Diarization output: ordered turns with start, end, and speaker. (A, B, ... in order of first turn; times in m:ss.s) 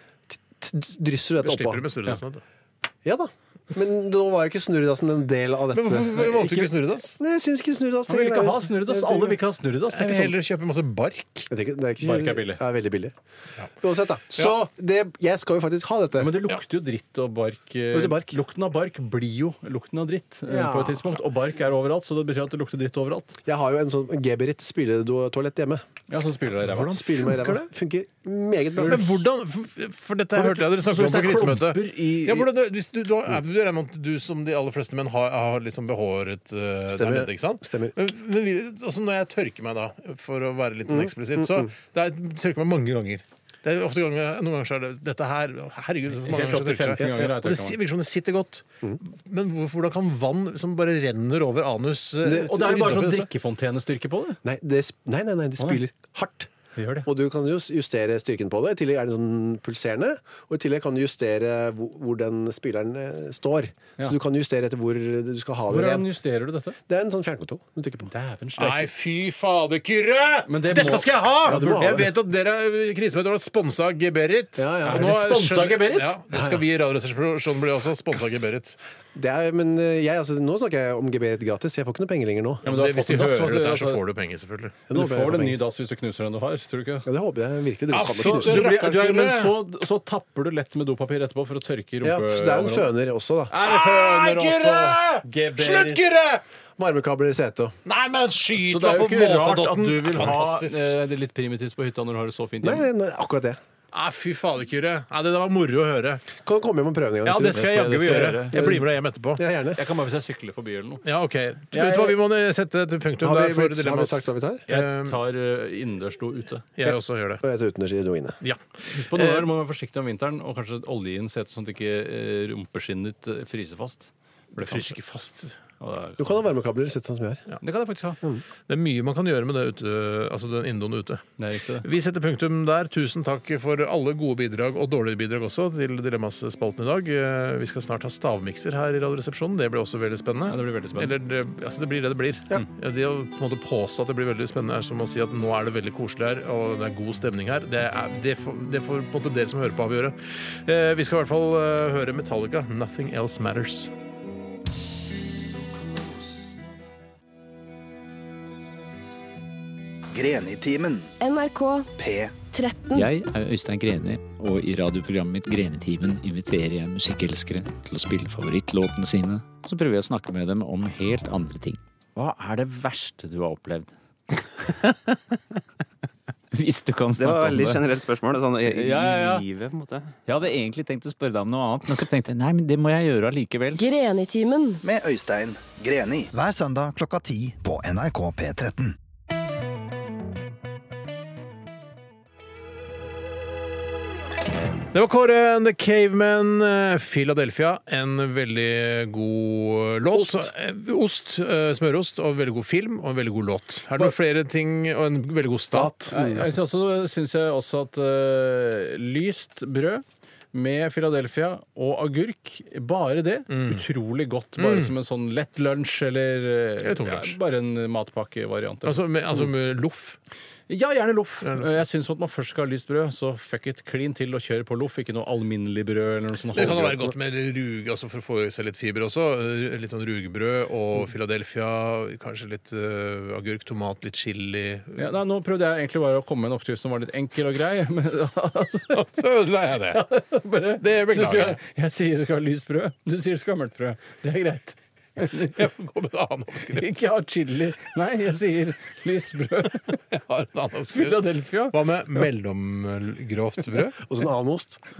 0:00.3-0:01.8 A
0:01.4-0:02.4 B
0:03.0-0:06.2 A
0:05.7-0:07.2 B
0:06.1-0:06.7 C
0:07.2-0:09.4 A
0:08.1-0:10.3 C
0:09.9-0:11.5 B
0:11.5-0:13.1 A
0:12.0-0:12.6 C
0:13.8-0:16.4 A
0:16.2-0:23.4 C
0:17.9-0:18.4 A
0:20.5-0:21.2 A
0:23.4-0:25.8 A
0:26.1-0:27.5 C
0:26.6-0:27.6 B
0:26.8-0:29.2 A
0:28.8-0:53.3 B
0:30.3-0:32.5 C
0:36.9-0:37.9 A
0:40.9-0:41.7 A
0:46.2-0:47.8 C
0:52.2-0:53.2 A
0:52.3-0:54.4 C
0:54.4-0:56.5 A
0:56.8-0:57.1 C
0:57.0-1:06.1 A
1:05.7-1:06.8 C
1:06.9-1:08.1 A
1:08.0-1:08.9 C
1:08.6-1:18.8 B
1:10.5-1:11.8 C
1:11.4-1:12.1 A
1:14.6-1:15.1 A
1:14.8-1:16.1 C
1:16.3-1:16.6 A
1:19.1-1:22.6 A
1:22.6-1:24.0 C
1:22.6-1:24.8 B
1:24.9-1:25.6 A
1:24.9-1:27.1 C
1:27.0-1:28.7 A
1:27.9-1:29.5 B
1:28.2-1:32.9 C
1:32.0-1:33.5 A
1:33.5-1:36.0 C
1:33.6-1:36.4 B
1:36.8-1:37.8 A
1:37.8-1:40.9 B
1:38.6-1:42.9 C
1:42.6-1:43.6 A
1:43.9-1:46.2 B
1:46.4-1:47.7 A
1:47.2-1:49.4 B
1:47.5-1:48.8 C
1:48.5-1:49.8 A
1:49.7-1:51.0 C
1:51.0-1:55.2 B
1:51.7-1:52.2 C
1:53.2-1:54.6 A
1:54.7-1:56.6 C
1:56.8-1:57.4 B
1:56.8-1:58.4 A
1:58.4-1:59.5 B
1:58.9-2:05.0 C
2:04.5-2:05.6 B
2:05.8-2:06.4 C
2:06.2-2:07.4 A
2:07.6-2:08.2 C
2:08.7-2:11.2 B
2:11.4-2:11.9 C
2:11.8-2:33.9 B
2:20.5-2:21.1 C
2:40.1-2:41.1 D
2:41.2-2:41.9 E
2:42.0-2:42.3 D
2:42.5-2:43.1 E
2:42.9-2:53.9 F
2:54.6-2:55.1 F
2:56.5-2:57.8 F
2:57.1-3:00.2 G
2:58.7-2:59.4 F
3:00.2-3:03.8 F
3:03.7-3:04.8 E
3:04.8-3:09.0 D
3:14.9-3:26.1 B
3:25.8-3:26.5 A
3:26.1-3:39.0 C
3:33.5-3:33.8 B
3:34.6-3:34.9 B
3:36.8-3:37.4 B
3:38.8-3:40.2 B
3:40.7-3:47.0 C
3:41.4-3:41.8 B
3:46.5-3:55.1 B
3:55.0-3:59.1 C
3:58.9-4:00.0 B
3:59.9-4:05.6 C
4:00.8-4:01.6 B
4:05.3-4:07.0 B
4:06.8-4:10.0 C
4:10.1-4:14.0 B
4:10.9-4:12.3 C
4:14.0-4:14.8 A